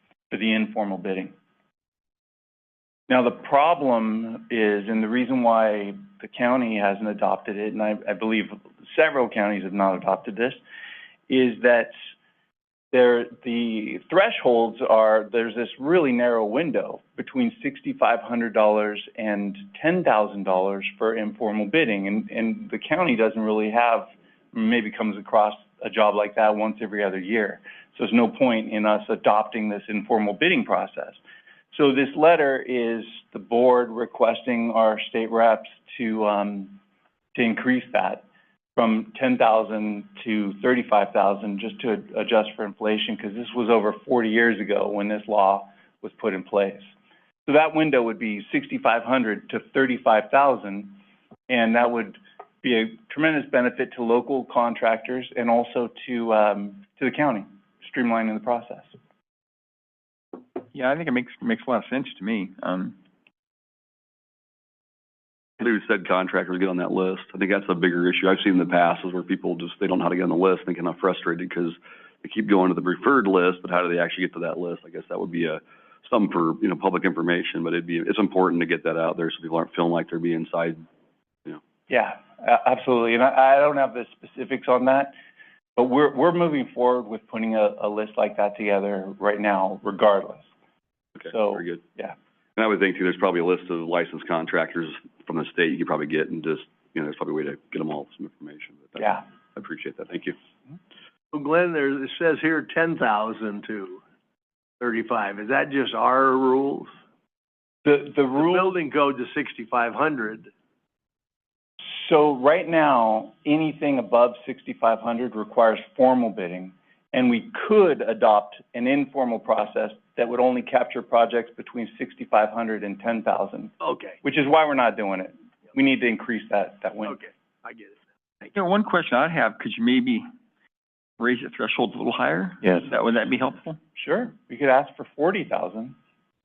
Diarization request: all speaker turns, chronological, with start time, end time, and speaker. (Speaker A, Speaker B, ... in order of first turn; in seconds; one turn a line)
Speaker A: 0.3-1.3
Speaker A: 3.1-10.6
Speaker A: 11.3-11.9
Speaker A: 12.9-31.2
Speaker A: 31.7-36.8
Speaker A: 37.4-38.2
Speaker A: 38.8-46.9
Speaker A: 47.5-51.0
Speaker A: 51.5-58.9
Speaker B: 60.7-63.0
Speaker C: 65.6-80.8
Speaker A: 81.9-85.1
Speaker A: 85.8-90.5
Speaker A: 91.2-92.2
Speaker C: 91.3-91.8
Speaker C: 92.6-100.4
Speaker A: 99.0-99.2
Speaker D: 101.3-104.0
Speaker D: 104.8-106.9
Speaker A: 107.8-108.7
Speaker D: 108.3-110.5
Speaker A: 111.8-127.2
Speaker D: 123.8-124.2
Speaker D: 127.0-128.0
Speaker B: 128.5-130.3
Speaker B: 131.2-133.8
Speaker A: 134.0-135.9